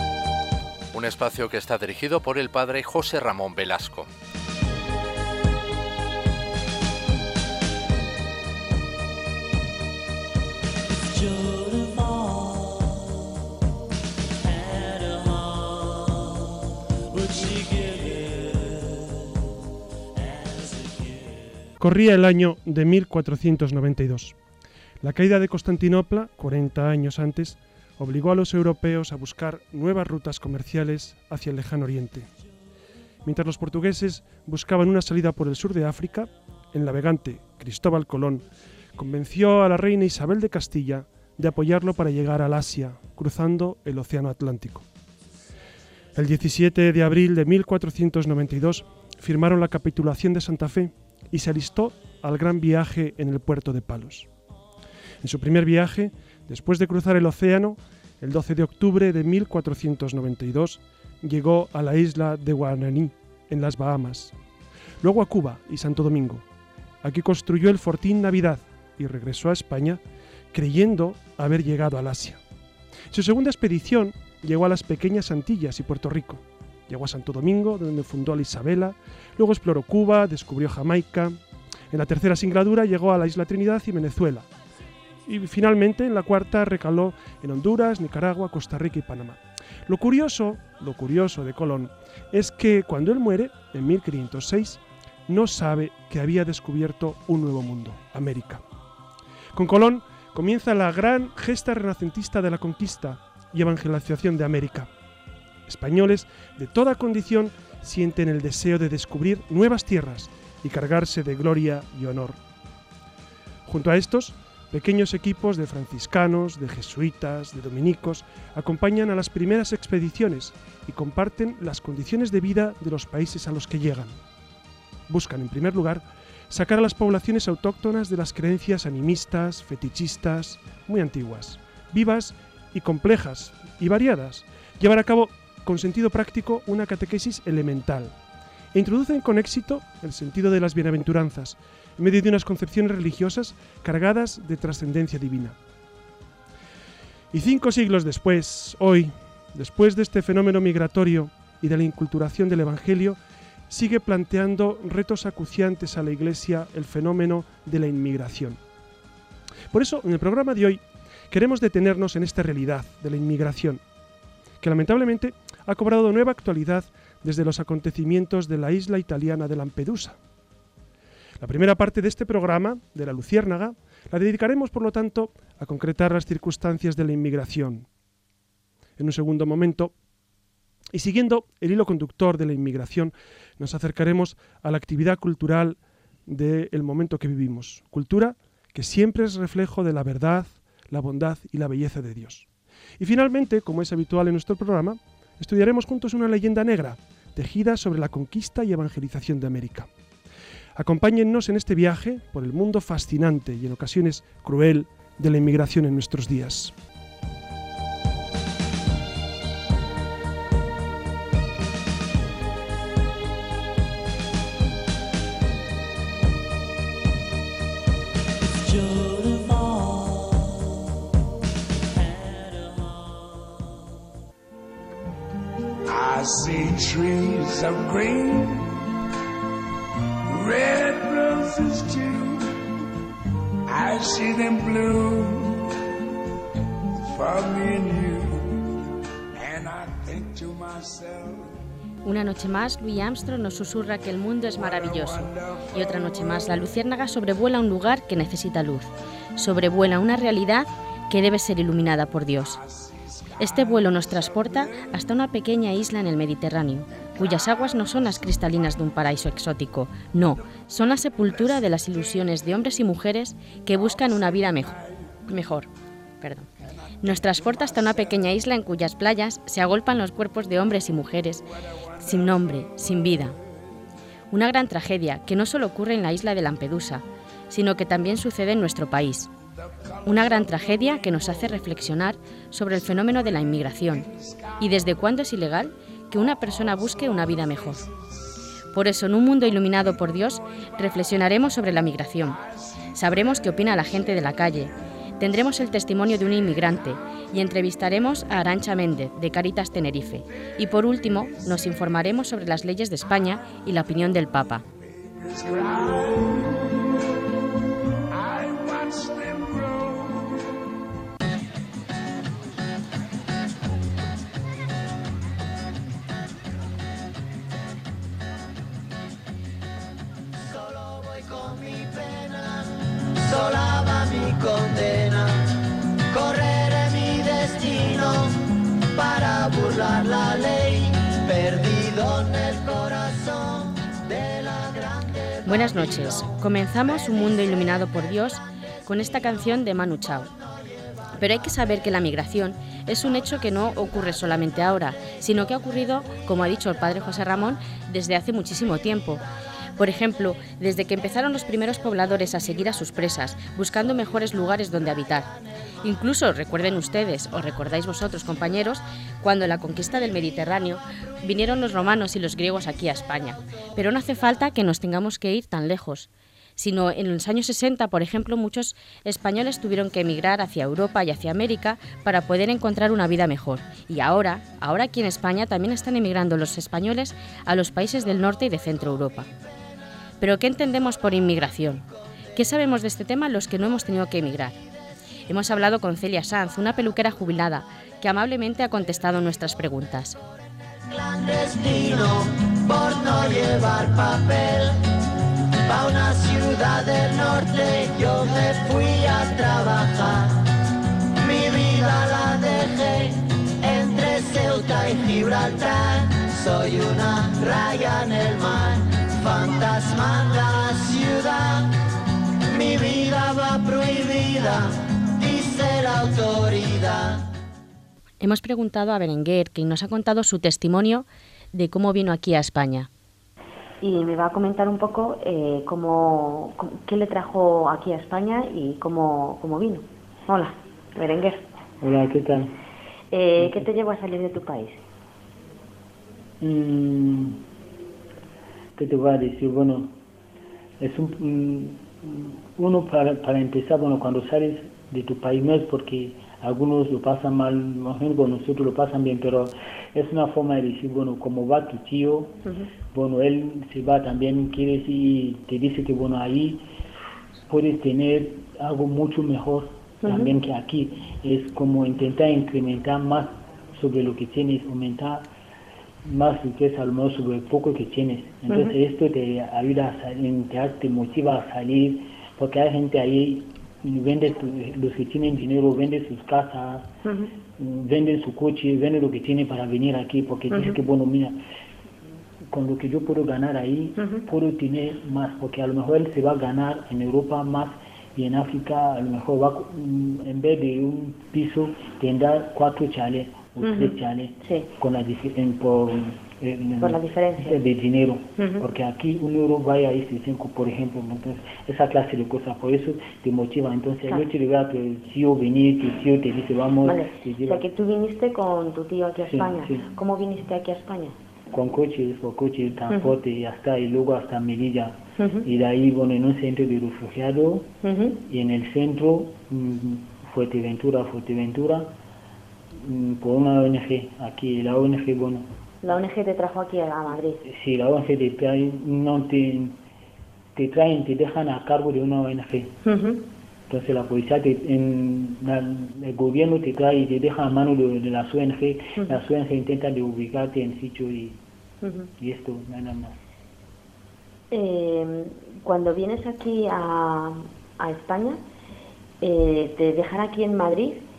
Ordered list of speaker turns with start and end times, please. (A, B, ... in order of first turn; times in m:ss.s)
0:00.9-0:04.1 A
0:21.8-0:24.4 B
0:25.0-0:32.3 B
0:33.2-0:44.8 B
0:46.2-0:54.3 B
0:55.2-1:04.3 B
1:05.0-1:06.4 B
1:07.0-1:10.0 B
1:10.5-1:12.4 B
1:13.1-1:21.4 B
1:21.9-1:24.5 B
1:25.2-1:38.6 B
1:39.5-1:44.9 B
1:45.7-1:52.4 B
1:53.6-2:04.2 B
2:05.1-2:18.2 B
2:18.7-2:25.6 B
2:27.3-2:33.2 B
2:33.7-2:38.6 B
2:39.7-2:43.8 B
2:44.6-2:50.2 B
2:51.4-2:57.9 B
2:59.0-2:59.9 B
3:00.9-3:12.5 B
3:13.0-3:19.9 B
3:20.8-3:26.7 B
3:38.7-3:40.1 C
3:45.9-3:48.8 C
3:50.3-3:52.5 C
3:53.7-3:55.7 C
3:57.0-3:58.8 C
3:59.3-4:01.5 C
4:02.0-4:12.6 D
4:04.6-4:05.6 C
4:12.7-4:14.7 C
4:13.4-4:24.7 D
4:24.1-4:24.9 C
4:25.3-4:25.7 D
4:26.2-4:26.5 D
4:27.0-4:31.5 D
4:32.0-4:33.4 D
4:34.3-4:39.3 D
4:40.0-4:44.1 D
4:40.0-4:40.5 C
4:44.1-4:44.5 C
4:44.6-4:47.8 D
4:48.7-4:52.4 D
4:52.9-5:04.6 D
5:04.9-5:06.7 C
5:08.1-5:10.3 C
5:20.4-5:36.3 E
5:35.4-5:40.3 D
5:41.2-5:49.2 D
5:49.8-6:19.3 D
6:20.2-6:24.6 D
6:25.3-6:30.2 D
6:30.9-6:34.8 E
6:35.6-6:40.5 E
6:41.2-6:51.7 E
6:52.5-6:57.3 E
6:58.2-7:02.9 D
7:03.8-7:11.4 F
7:11.8-7:12.5 G
7:13.1-7:14.8 F
7:13.4-7:13.7 G
7:16.4-7:17.4 G
7:18.8-7:19.9 G
7:20.8-7:32.4 G
7:32.9-7:36.6 G
7:37.5-7:45.3 G
7:40.0-7:40.3 F
7:46.0-7:56.9 G
7:48.5-7:48.8 F
7:57.0-7:57.3 F
7:57.6-8:01.4 G
8:00.5-8:00.8 F
8:02.5-8:27.6 G
8:04.0-8:04.2 F
8:13.6-8:14.7 F
8:16.8-8:17.6 F
8:18.4-8:18.6 F
8:26.8-8:31.2 F
8:29.2-8:29.9 G
8:31.5-8:37.7 G
8:32.9-8:33.2 F
8:35.2-8:35.5 F
8:37.8-8:38.2 F
8:38.2-8:41.9 G
8:42.8-8:45.5 G
8:45.8-8:47.4 F
8:47.4-8:49.8 G
8:50.6-8:52.7 G
8:52.8-8:53.2 F
8:53.7-9:01.4 G
9:01.8-9:02.1 F
9:02.2-9:03.2 G
9:04.5-9:08.4 F
9:09.2-9:11.0 F